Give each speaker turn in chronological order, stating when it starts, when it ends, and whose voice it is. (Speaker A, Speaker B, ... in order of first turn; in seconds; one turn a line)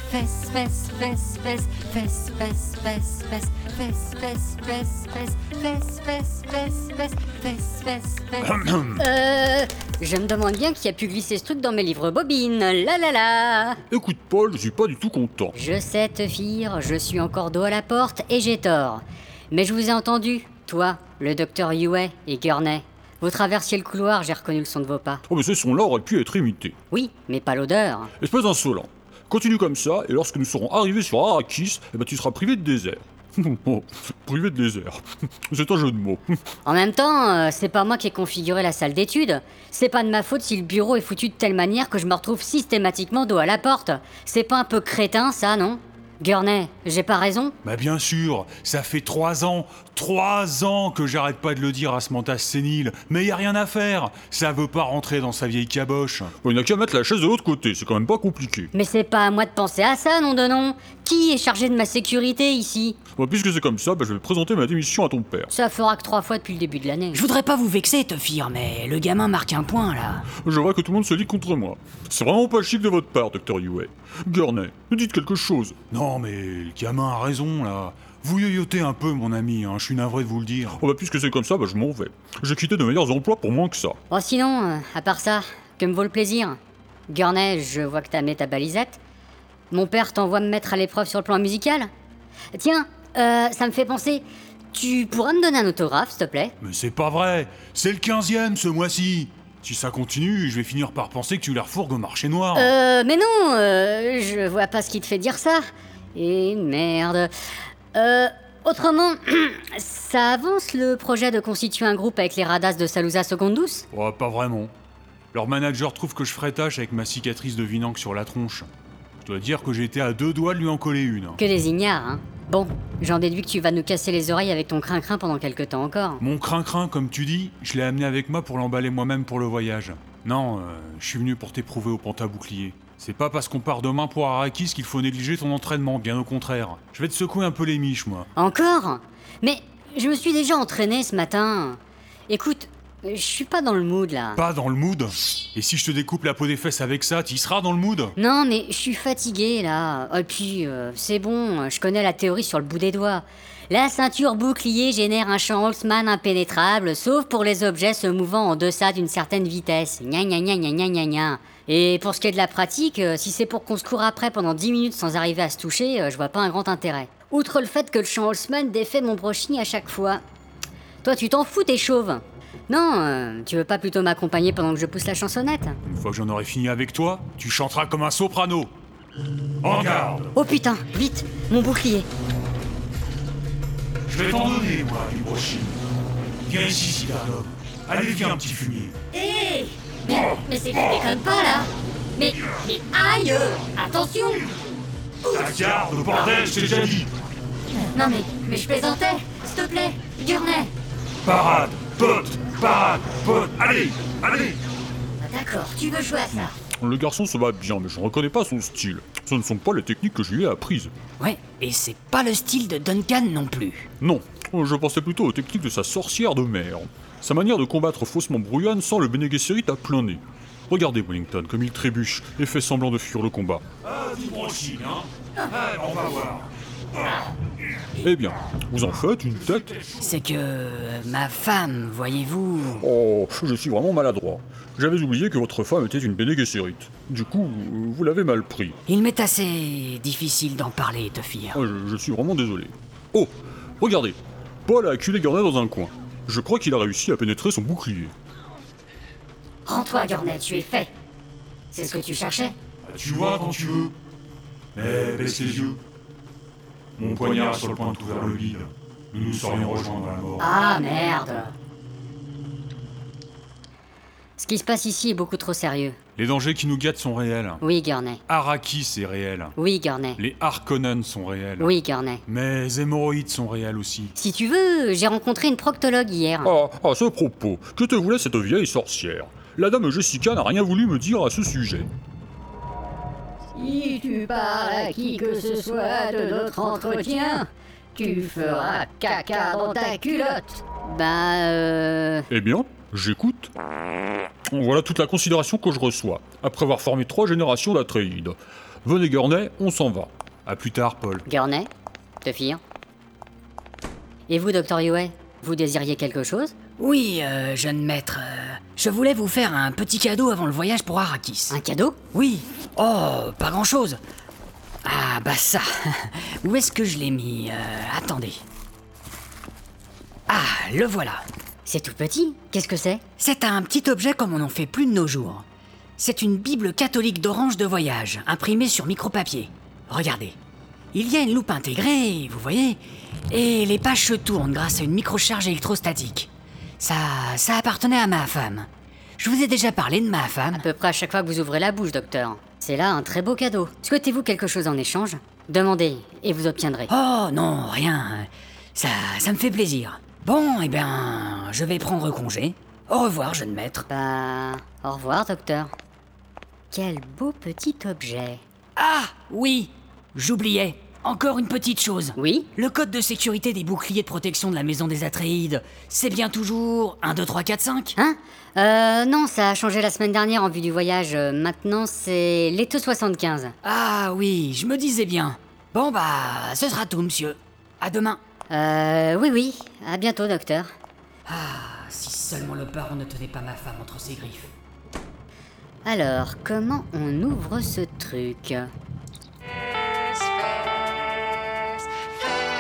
Speaker A: 0.3-6.5
Speaker B: 9.0-13.8
Speaker C: 13.9-15.6
Speaker B: 15.5-25.2
Speaker C: 25.3-26.8
Speaker B: 26.9-28.1
Speaker C: 28.2-36.4
Speaker B: 36.6-47.5
Speaker D: 47.6-56.3
Speaker C: 56.4-58.7
Speaker B: 58.7-63.0
Speaker C: 63.2-65.5
Speaker B: 65.5-67.2
Speaker E: 67.1-70.2
Speaker C: 70.4-75.8
Speaker D: 75.9-80.8
Speaker C: 80.8-84.0
Speaker B: 84.1-89.0
Speaker B: 89.7-91.9
Speaker B: 92.5-96.5
Speaker D: 96.6-102.7
Speaker B: 102.5-105.6
Speaker B: 106.1-107.3
Speaker B: 107.9-113.9
Speaker D: 113.9-114.7
Speaker D: 115.3-118.7
Speaker D: 119.2-121.4
Speaker B: 121.4-126.2
Speaker D: 126.2-138.3
Speaker B: 138.4-144.4
Speaker D: 144.4-148.1
Speaker B: 148.2-170.2
Speaker B: 171.0-175.8
Speaker D: 175.9-178.7
Speaker D: 179.6-180.3
Speaker B: 180.3-182.1
Speaker D: 184.1-185.8
Speaker D: 186.5-189.0
Speaker B: 189.1-194.5
Speaker D: 195.3-197.1
Speaker B: 197.9-200.7
Speaker D: 201.2-204.6
Speaker B: 205.2-206.4
Speaker A: 205.5-206.5
Speaker C: 206.8-210.9
Speaker E: 211.2-213.9
Speaker C: 214.0-223.6
Speaker D: 223.9-226.5
Speaker C: 228.0-229.8
Speaker E: 230.0-232.8
Speaker C: 232.8-238.8
Speaker E: 238.9-241.6
Speaker C: 241.5-248.1
Speaker B: 249.7-250.9
Speaker B: 251.7-252.5
Speaker D: 252.8-253.9
Speaker D: 254.8-255.8
Speaker D: 257.0-260.5
Speaker B: 260.4-261.5
Speaker B: 264.4-266.0
Speaker D: 266.2-267.6
Speaker B: 267.6-268.2
Speaker D: 268.3-269.5
Speaker B: 269.6-270.2
Speaker D: 270.2-271.8
Speaker B: 271.6-272.2
Speaker D: 272.2-274.1
Speaker B: 274.2-276.5
Speaker C: 276.4-281.9
Speaker B: 283.6-292.3
Speaker C: 292.3-293.5
Speaker C: 294.5-300.1
Speaker D: 300.5-301.2
Speaker B: 301.3-301.7
Speaker B: 302.2-302.6
Speaker B: 304.3-306.5
Speaker E: 306.8-311.6
Speaker B: 311.5-312.0
Speaker E: 312.1-314.0
Speaker E: 314.8-318.4
Speaker E: 320.3-321.2
Speaker B: 321.6-323.0
Speaker E: 323.2-325.4
Speaker E: 326.0-330.4
Speaker E: 330.9-336.3
Speaker E: 336.8-340.6
Speaker B: 340.5-346.9
Speaker E: 346.9-353.9
Speaker B: 353.9-355.7
Speaker B: 356.7-358.4
Speaker E: 358.8-367.9
Speaker B: 362.1-362.5
Speaker B: 368.0-373.5
Speaker E: 373.6-378.2
Speaker B: 378.5-380.7
Speaker E: 381.3-384.5
Speaker B: 385.9-388.7